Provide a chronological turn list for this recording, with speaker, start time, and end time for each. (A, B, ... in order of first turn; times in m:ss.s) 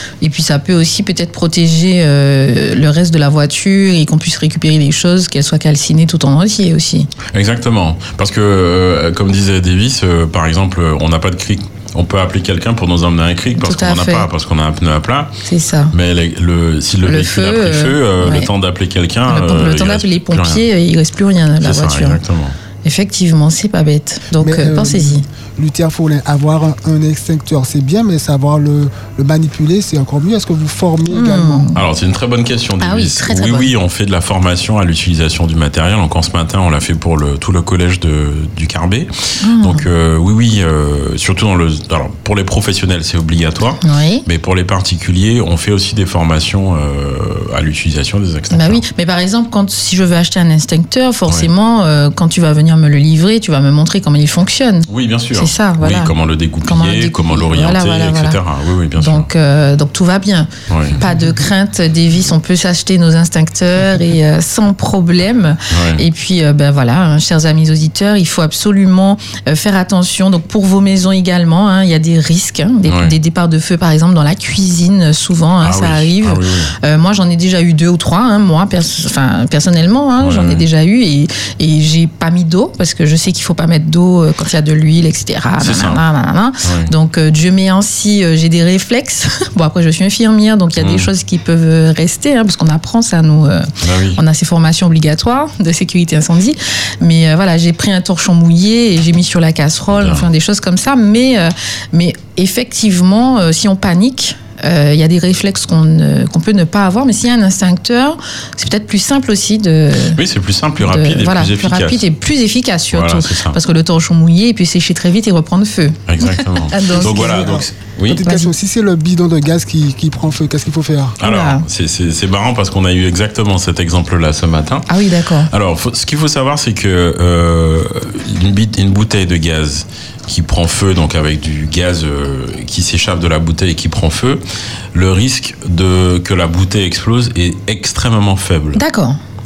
0:00.2-0:07.1 A
0:07.3-0:15.4 B
0:13.6-0:14.3 A
0:15.4-0:15.9 A
0:15.9-0:20.6 B
0:17.1-0:18.5 A
0:19.3-0:22.2 A
0:21.6-0:22.6 B
0:22.8-0:25.2 A
0:24.4-0:31.7 C
0:31.1-0:31.8 A
0:31.8-0:48.8 B
0:32.8-0:33.7 A
0:39.4-0:39.8 A
0:43.8-0:44.2 A
0:48.5-0:58.4 A
0:54.9-0:59.3 B
0:59.0-1:50.2 A
1:00.7-1:01.0 B
1:05.7-1:06.0 B
1:12.9-1:13.1 B
1:15.6-1:16.7 B
1:20.2-1:20.6 B
1:25.6-1:26.0 B
1:26.6-1:26.9 B
1:30.8-1:31.1 B
1:33.8-1:34.2 B
1:39.9-1:40.3 B
1:50.1-1:52.0 B
1:50.8-1:57.6 A
1:52.9-1:53.6 B
1:56.1-1:58.2 B
1:57.0-2:01.2 C
1:58.2-1:58.5 A
2:01.2-2:04.9 B
2:01.2-2:01.6 A
2:04.9-2:05.5 A
2:05.5-2:14.4 B
2:14.9-2:18.8 B
2:18.8-2:19.2 A